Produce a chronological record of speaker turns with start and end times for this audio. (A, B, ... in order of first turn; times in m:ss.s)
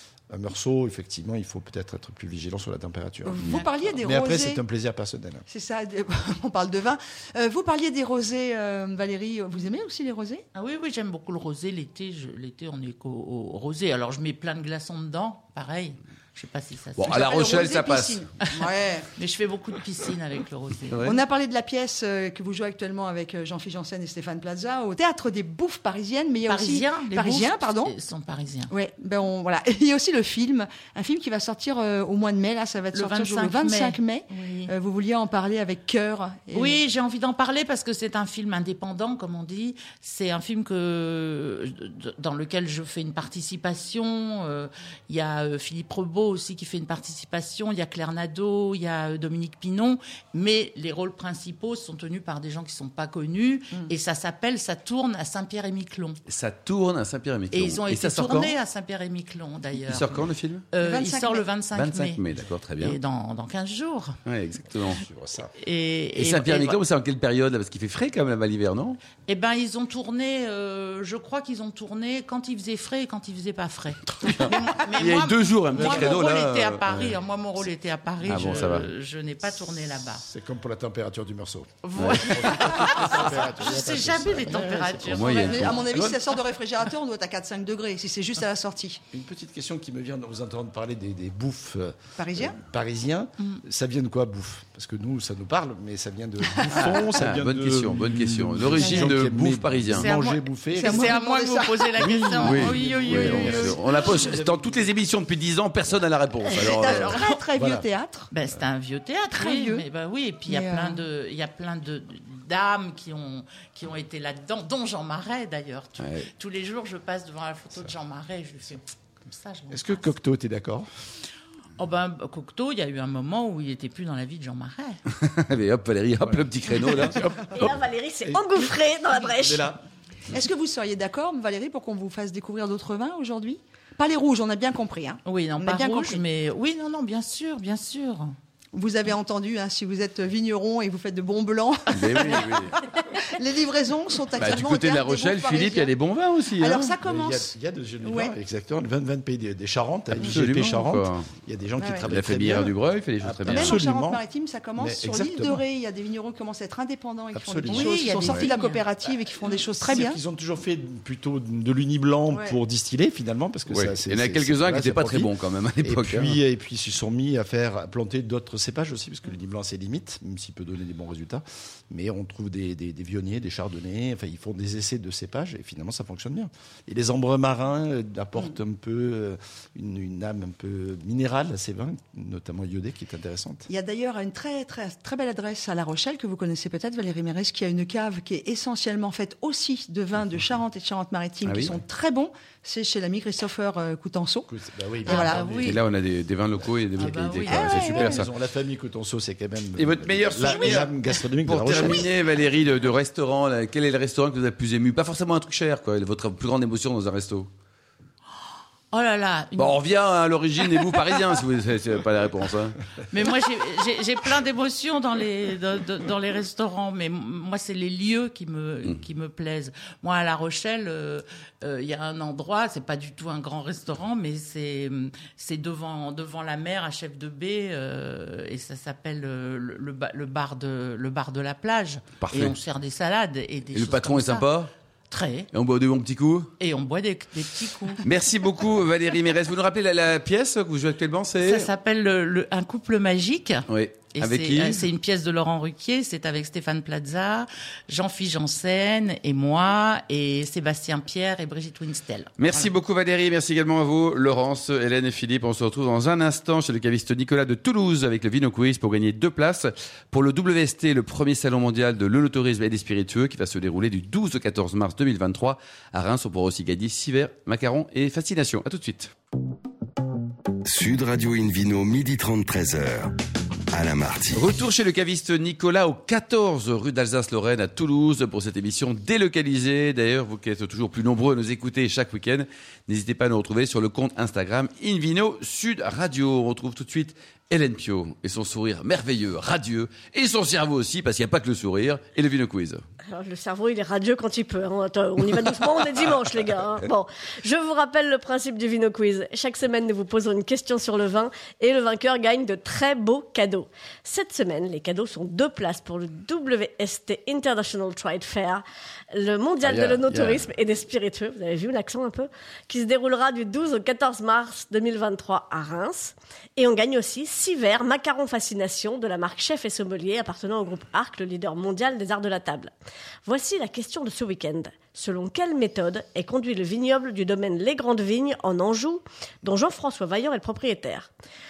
0:00.3-0:05.4 A
0:03.2-0:04.6 B
0:05.5-0:10.4 B
0:10.5-0:17.3 C
0:17.0-0:18.2 D
0:17.0-0:19.1 B
0:19.2-0:21.1 C
0:21.0-0:27.9 B
0:26.4-0:28.7 C
0:28.7-0:36.8 B
0:32.9-0:34.7 C
0:36.5-0:56.2 C
0:56.2-0:58.6 D
0:57.5-1:02.2 C
0:59.8-1:00.7 D
1:00.8-1:01.5 B
1:01.7-1:03.0 D
1:02.8-1:04.2 C
1:04.2-1:05.0 D
1:04.8-1:05.5 A
1:05.6-1:06.8 C
1:06.2-1:09.0 D
1:09.3-1:20.2 C
1:14.2-1:17.2 D
1:15.7-1:16.3 A
1:18.2-1:18.9 D
1:18.3-1:18.7 A
1:20.2-1:26.2 A
1:21.8-1:26.0 C
1:22.0-1:22.3 D
1:25.0-1:25.8 D
1:25.4-1:29.0 B
1:29.1-1:41.2 A
1:32.2-1:32.6 B
1:36.6-1:36.9 B
1:36.9-1:40.1 D
1:38.8-1:39.1 C
1:39.9-1:43.8 C
1:40.7-1:43.5 B
1:42.3-1:44.8 A
1:42.3-1:47.2 D
1:46.6-1:48.3 B
1:47.5-1:47.8 A
1:48.3-2:00.1 C
1:49.3-1:49.8 B
1:50.5-1:51.0 B
1:56.0-1:56.3 D
1:59.7-2:00.9 A
2:01.8-2:05.0 C
2:05.1-2:07.2 D
2:06.2-2:09.8 A
2:07.5-2:09.7 E
2:10.3-2:16.2 B
2:15.2-2:18.3 C
2:18.7-2:25.9 B
2:21.9-2:22.8 D
2:22.0-2:22.4 C
2:24.3-2:26.9 D
2:26.5-2:27.5 B
2:27.0-2:34.2 A
2:28.0-2:28.3 B
2:30.2-2:31.3 D
2:31.8-2:32.1 B
2:32.1-2:33.8 D
2:33.5-2:40.2 B
2:34.8-2:35.6 A
2:37.3-2:38.0 A
2:37.7-2:38.8 C
2:39.8-2:45.3 A
2:42.3-2:42.6 B
2:43.7-2:46.4 D
2:45.8-3:03.7 A
3:03.7-3:14.5 B
3:11.4-3:11.8 D
3:14.5-3:15.7 A
3:15.0-3:15.5 B
3:15.0-3:15.8 C
3:15.6-3:18.3 D
3:17.0-3:18.2 C
3:17.5-3:18.1 B
3:17.6-3:22.1 A
3:19.8-3:27.5 D
3:28.9-3:29.8 C
3:29.6-3:32.8 D
3:33.1-3:54.5 C
3:52.2-3:52.6 D
3:53.7-3:54.7 D
3:55.1-3:55.5 C
3:55.5-3:56.5 D
3:56.6-3:58.0 C
3:58.0-4:01.7 D
4:01.4-4:12.7 C
4:03.7-4:04.9 D
4:12.4-4:29.1 D
4:30.6-4:33.1 F
4:33.7-4:34.5 F
4:34.3-4:52.8 D
4:53.1-5:22.7 E
5:09.6-5:10.4 D
5:23.2-5:31.1 E